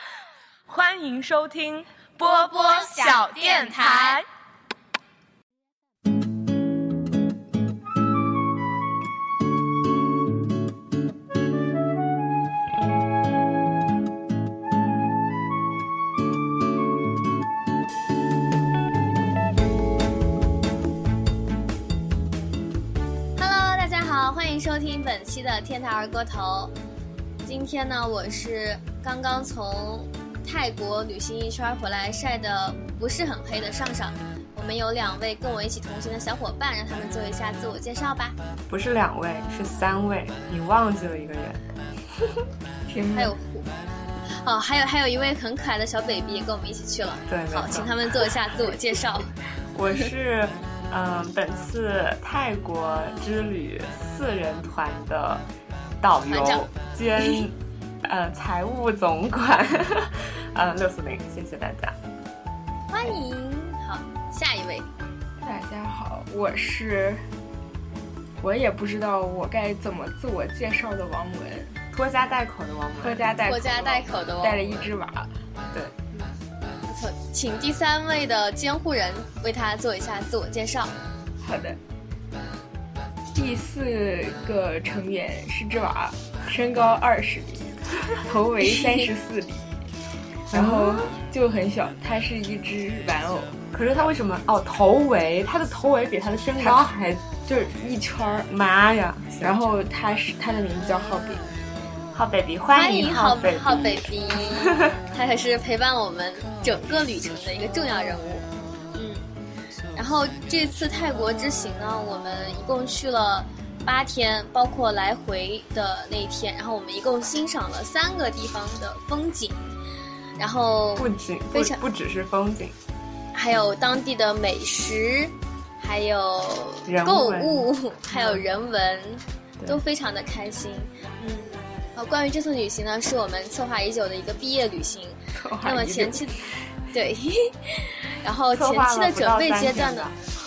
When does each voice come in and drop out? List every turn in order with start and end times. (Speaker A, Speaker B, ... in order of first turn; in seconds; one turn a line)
Speaker A: 0.7-4.2
Speaker B: 2.4-4.2
Speaker B: 23.4-26.7
Speaker B: 27.4-38.4
Speaker C: 38.7-41.6
Speaker D: 42.9-43.3
Speaker B: 43.1-43.7
Speaker B: 44.3-49.3
Speaker C: 47.3-48.1
Speaker C: 49.7-55.4
Speaker C: 56.0-61.9
Speaker B: 56.2-56.6
Speaker B: 62.9-64.9
Speaker D: 65.4-67.2
Speaker D: 68.4-71.8
Speaker C: 71.9-73.2
Speaker D: 73.0-75.3
Speaker B: 73.5-74.8
Speaker B: 76.1-80.9
Speaker D: 81.4-81.8
Speaker D: 83.3-89.7
Speaker C: 90.5-91.2
Speaker D: 90.5-93.6
Speaker C: 93.7-97.2
Speaker D: 96.6-98.5
Speaker C: 98.5-99.6
Speaker D: 99.4-101.5
Speaker C: 102.1-104.9
Speaker B: 102.7-109.2
Speaker B: 110.0-119.6
Speaker B: 120.4-121.8
Speaker C: 121.0-122.8
Speaker B: 123.3-140.1
Speaker C: 126.9-128.4
Speaker C: 135.4-136.2
Speaker C: 138.5-140.2